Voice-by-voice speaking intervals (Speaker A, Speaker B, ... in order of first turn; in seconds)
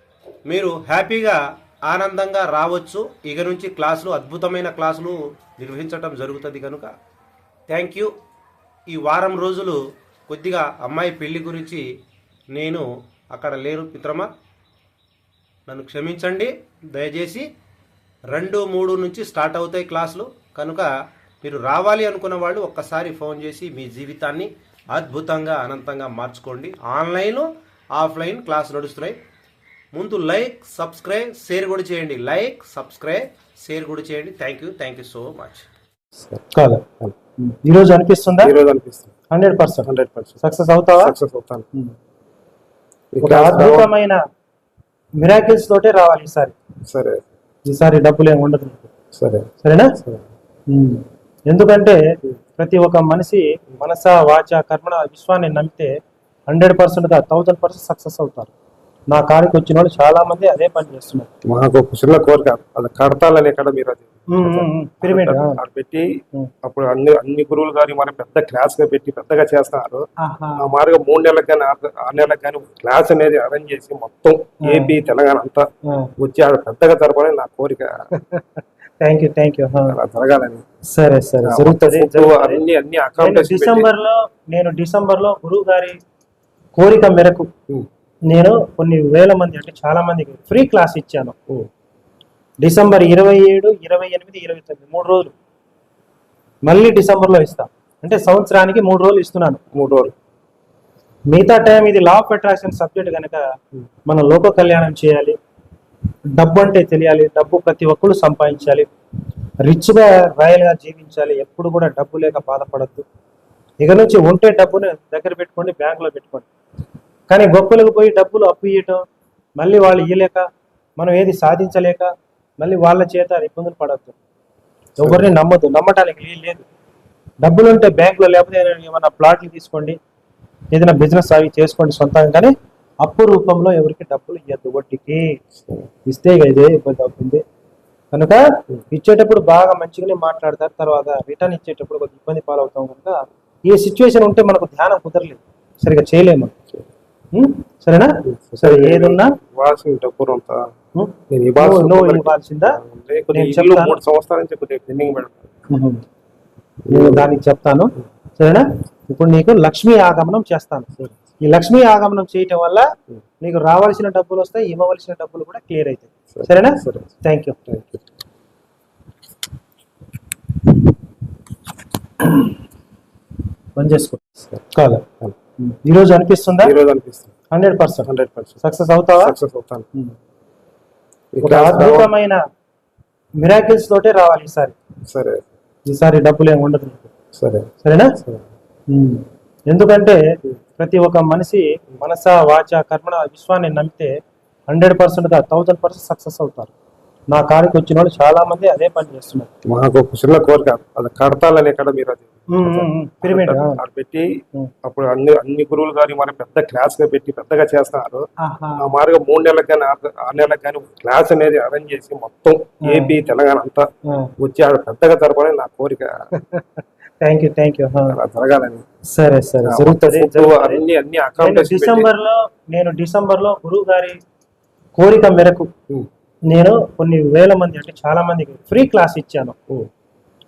Speaker A: 0.5-6.9, 7.7-8.1, 8.9-11.8, 12.5-14.3, 15.7-17.4, 18.3-20.9, 21.4-29.2, 29.9-35.7
Speaker B: 36.5-36.9, 37.4-38.5, 39.3-39.9, 40.4-41.1, 43.2-44.2, 45.2-46.5, 47.6-48.9, 49.6-50.0, 50.7-52.0, 52.6-55.9, 56.5-58.5, 59.1-61.3, 64.3-65.6, 70.2-70.7, 74.7-74.9, 79.0-80.0, 80.9-82.6, 83.2-86.0, 86.8-87.5, 88.3-91.4, 92.6-95.3, 96.7-99.6, 101.3-103.4, 104.1-105.4, 106.4-108.9, 109.6-113.0, 113.8-116.5, 117.3-119.0, 119.6-120.4, 121.0-122.1, 122.6-124.2, 125.0-126.7, 127.4-130.0, 130.7-135.3, 136.1-137.4, 138.1-146.5, 147.3-149.3, 150.9-152.8, 153.3-154.0, 155.7-156.0, 156.9-162.9, 163.4-167.6, 173.8-175.1, 175.6-176.7, 177.5-178.1, 178.6-179.3, 181.4-182.4, 183.4-184.8, 185.9-187.1, 187.8-188.2, 188.9-190.2, 190.8-194.1, 194.7-196.7, 197.3-199.5, 202.5-203.8, 208.4-208.9, 212.9-213.2, 217.2-218.2, 219.1-220.8, 221.4-224.2, 225.0-225.7, 226.5-229.6
Speaker C: 38.4-39.1, 39.9-40.4, 41.0-41.7, 43.1-43.9, 46.9-47.2, 49.1-49.5, 50.0-50.2, 61.5-70.1, 70.6-75.7, 76.2-78.1, 79.9-80.6, 81.4-83.9, 99.7-100.1, 148.2-150.6, 151.3-155.5, 156.9-157.2, 166.3-167.2, 167.7-168.0, 176.6-177.3, 178.1-178.6, 179.2-179.9, 181.3-182.1, 185.1-185.4, 187.3-188.5, 199.7-213.9, 214.4-216.3, 218.1-218.8, 219.6-222.1